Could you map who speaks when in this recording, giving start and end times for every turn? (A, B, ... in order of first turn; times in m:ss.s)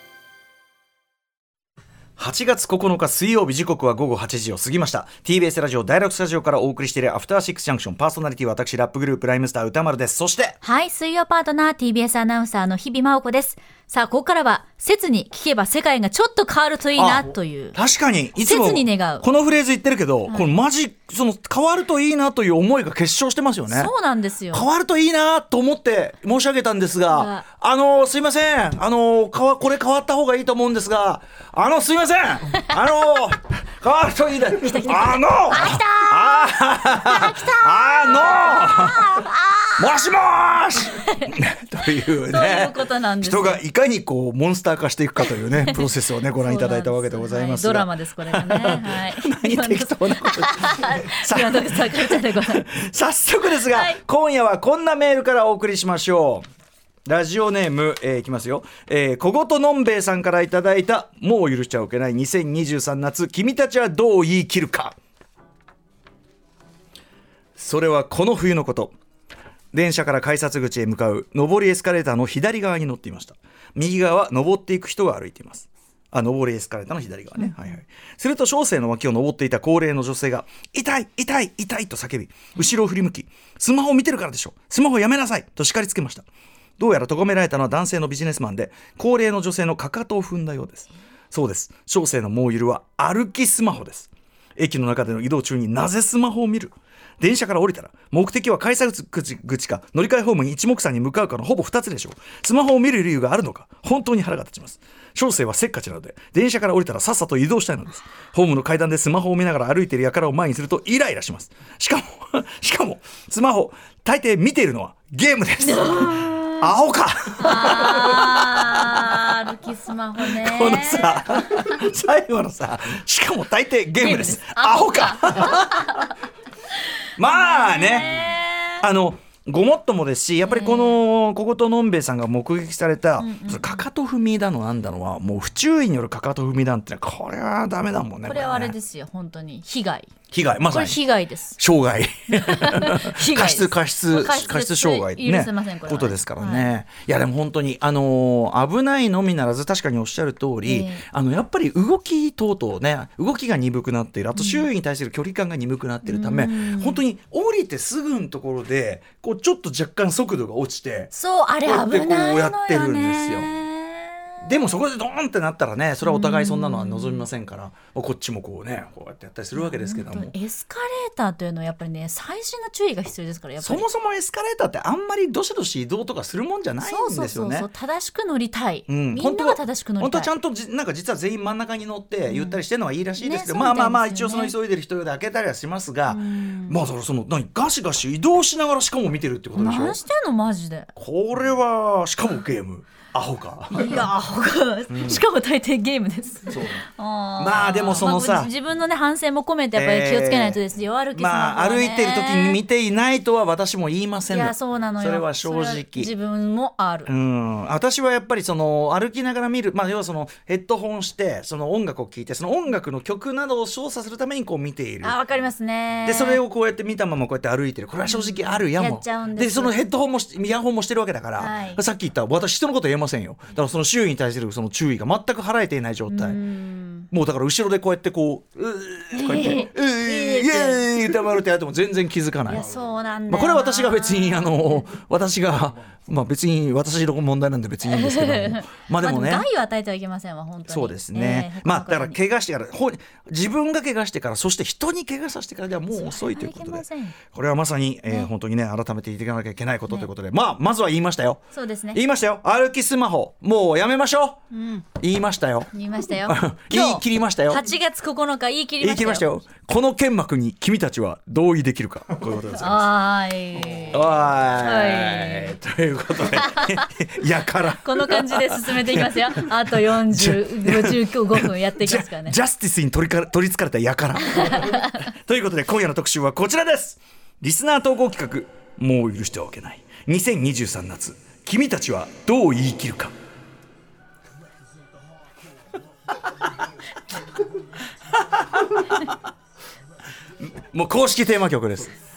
0:02.2-0:10.6 A
0:10.6-0:17.8 B
0:17.0-0:23.9 A
0:18.4-0:19.3 B
0:23.7-0:24.6 B
0:24.5-0:39.3 A
0:27.1-0:27.4 B
0:34.6-0:39.8 B
0:39.8-0:56.5 A
0:40.8-0:41.4 B
0:42.1-0:43.6 B
0:45.6-0:45.8 B
0:46.4-0:52.7 B
0:53.7-0:54.0 B
0:57.1-1:05.0 A
1:07.6-1:08.9 A
1:09.7-1:26.3 A
1:26.8-1:59.3 A
1:55.6-1:56.7 B
1:57.4-2:01.7 B
2:00.2-2:06.1 A
2:04.0-2:06.1 B
2:07.2-2:08.3 A
2:07.3-2:08.8 B
2:08.8-2:18.7 A
2:10.4-2:11.0 B
2:13.2-2:13.8 B
2:18.2-2:20.2 B
2:20.3-2:21.0 A
2:20.7-2:21.6 B
2:21.6-2:41.1 A
2:22.3-2:26.7 B
2:30.6-2:31.0 B
2:34.4-2:34.7 B
2:36.0-2:37.0 B
2:41.1-2:44.5 B
2:41.6-2:43.5 A
2:44.4-2:50.3 A
2:46.0-2:47.2 B
2:49.6-2:53.8 B
2:53.6-2:57.7 A
2:56.8-3:00.3 B
2:58.9-3:10.0 A
3:02.3-3:02.6 B
3:03.2-3:04.5 B
3:06.1-3:06.8 B
3:09.6-3:10.9 B
3:11.0-3:14.1 A
3:13.7-3:22.6 B
3:14.9-3:15.2 A
3:16.5-3:16.9 A
3:17.4-3:18.5 A
3:19.7-3:20.6 A
3:21.2-3:26.1 A
3:24.3-3:27.1 B
3:27.1-3:35.2 A
3:35.0-3:36.4 B
3:36.0-3:46.4 A
3:38.1-3:39.8 B
3:41.4-3:41.8 B
3:46.1-3:47.1 B
3:47.1-3:52.8 A
3:49.1-3:51.0 B
3:52.5-3:54.8 B
3:53.3-3:59.5 A
3:57.9-4:02.2 B
4:00.7-4:14.4 A
4:05.9-4:07.2 B
4:11.5-4:12.0 B
4:14.5-4:14.8 B
4:15.0-4:15.7 A
4:15.7-4:19.3 B
4:16.2-4:17.6 A
4:18.8-4:22.9 A
4:22.5-4:25.6 B
4:23.8-4:43.1 A
4:26.2-4:26.9 B
4:27.7-4:32.4 B
4:34.2-4:35.0 B
4:48.1-4:49.1 A
4:50.4-4:51.9 A